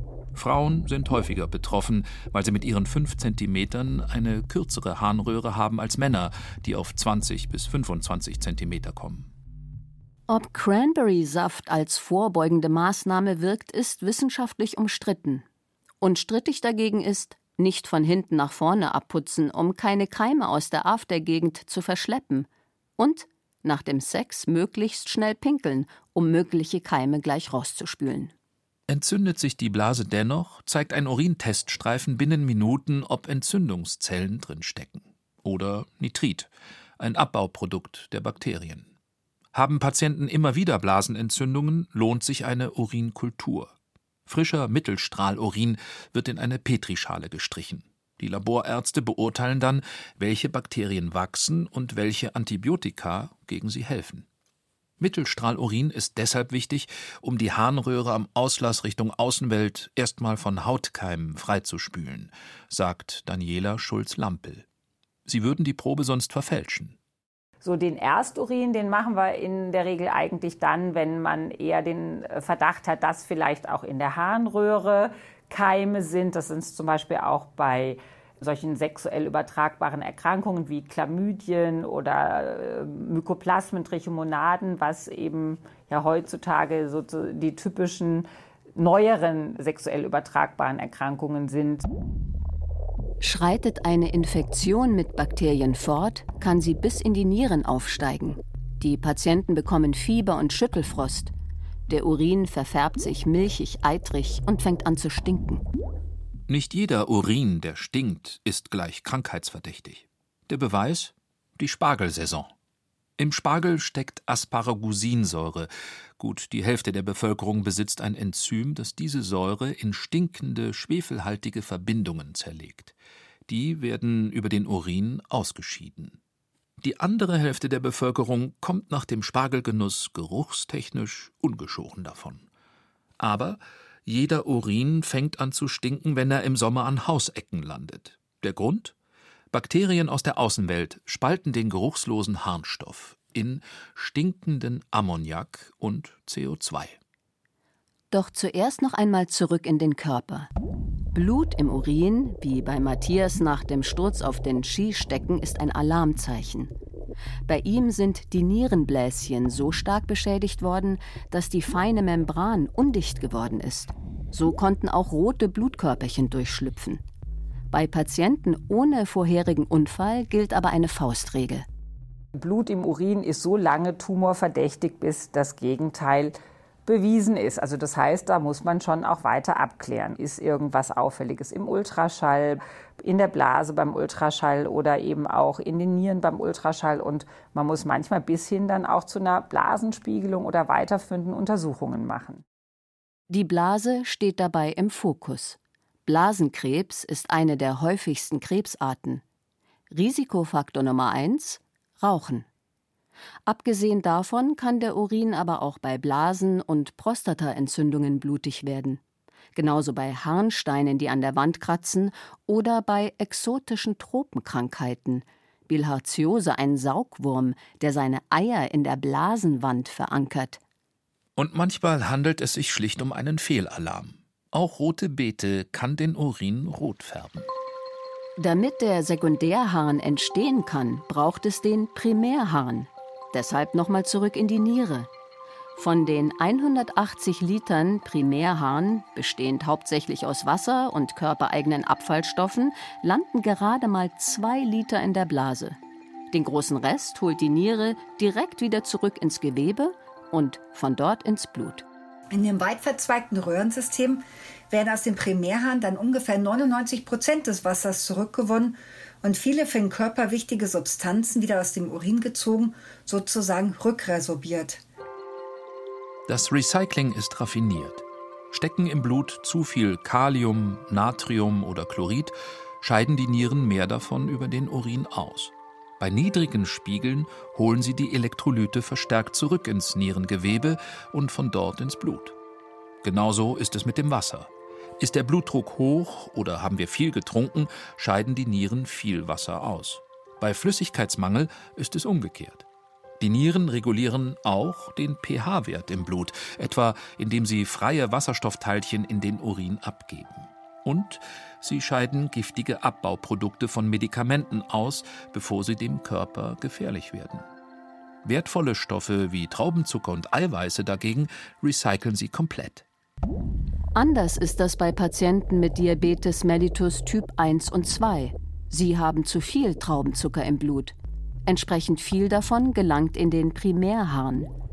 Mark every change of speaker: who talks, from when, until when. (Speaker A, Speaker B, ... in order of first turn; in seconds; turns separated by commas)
Speaker A: 0.3-9.3, Speaker B: 10.3-15.4, Speaker B: 16.0-28.3, Speaker A: 28.9-38.9, Speaker A: 39.5-43.7, Speaker A: 44.3-54.3, Speaker A: 55.0-64.7, Speaker A: 65.3-67.0, Speaker C: 67.6-91.9, Speaker B: 93.2-101.3, Speaker B: 101.9-105.6, Speaker A: 106.5-112.5, Speaker A: 113.2-122.9, Speaker A: 123.5-126.2, Speaker A: 126.8-132.5, Speaker A: 133.2-138.9, Speaker A: 139.5-147.0, Speaker B: 148.1-150.5, Speaker B: 151.1-156.7, Speaker B: 157.5-167.0, Speaker B: 167.7-171.7, Speaker C: 172.3-176.3, Speaker C: 176.9-192.4, Speaker B: 193.3-199.2, Speaker B: 199.9-202.5, Speaker B: 203.5-209.0, Speaker B: 209.6-220.6, Speaker A: 221.4-227.5, Speaker B: 228.4-235.1, Speaker B: 235.8-245.8, Speaker B: 246.3-251.8, Speaker D: 252.3-264.8, Speaker A: 266.3-282.4, Speaker A: 283.0-292.7, Speaker A: 293.2-307.5, Speaker A: 308.2-312.9, Speaker B: 313.9-320.9, Speaker B: 321.5-324.5